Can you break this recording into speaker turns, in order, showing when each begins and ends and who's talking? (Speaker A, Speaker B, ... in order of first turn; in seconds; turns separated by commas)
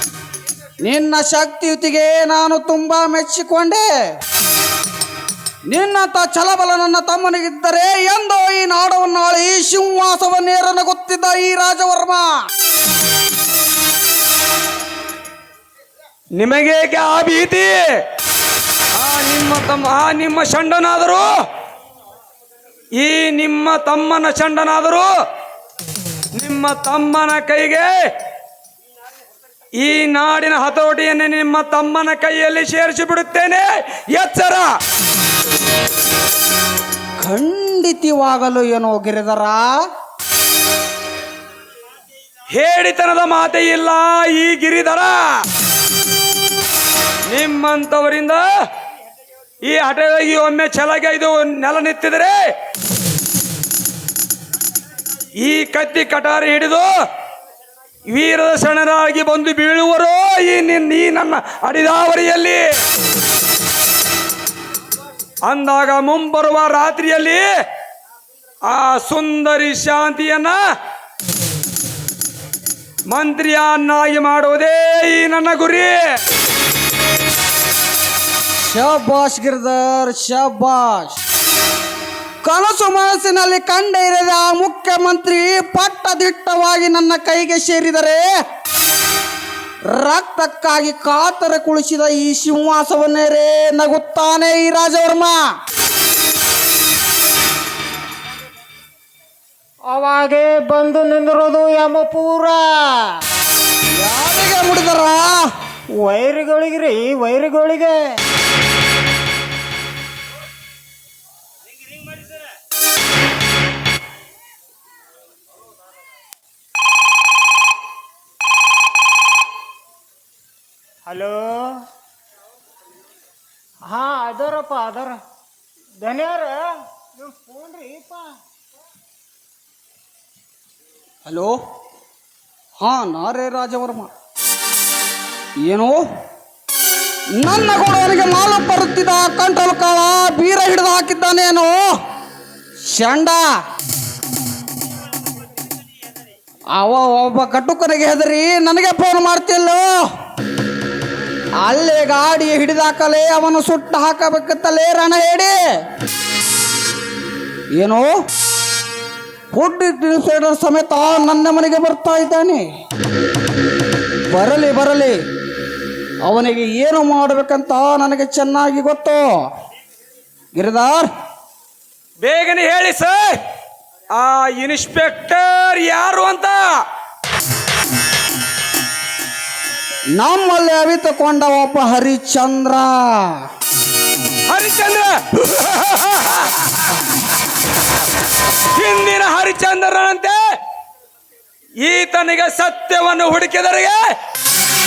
Speaker A: 0.8-3.9, Speaker A: 5.7-12.3, Speaker B: 16.4-18.0, Speaker B: 19.0-21.3, Speaker B: 23.0-25.1, Speaker B: 26.4-28.1, Speaker B: 29.8-34.7, Speaker A: 37.2-39.8, Speaker B: 42.5-45.3, Speaker B: 47.3-48.7, Speaker B: 49.6-52.5, Speaker B: 55.4-56.9, Speaker B: 58.1-62.8, Speaker B: 65.5-67.5, Speaker B: 68.7-70.6, Speaker B: 73.1-76.0, Speaker A: 78.6-81.2, Speaker A: 82.4-88.2, Speaker A: 89.9-95.4, Speaker C: 99.9-103.2, Speaker A: 104.0-105.5, Speaker C: 106.0-108.2, Speaker C: 121.1-121.8, Speaker C: 123.9-125.2, Speaker C: 126.0-128.3, Speaker A: 131.3-131.5, Speaker A: 132.8-134.1, Speaker A: 135.6-136.0, Speaker A: 137.4-142.0, Speaker A: 142.9-143.5, Speaker A: 146.7-150.0, Speaker A: 151.6-155.6, Speaker A: 157.8-158.1, Speaker A: 159.5-162.7, Speaker A: 164.3-165.2, Speaker A: 166.2-169.3, Speaker A: 170.6-171.1, Speaker B: 172.2-173.4, Speaker B: 174.2-176.6, Speaker A: 180.2-183.4, Speaker B: 184.5-187.0, Speaker B: 188.7-190.4, Speaker B: 191.8-194.1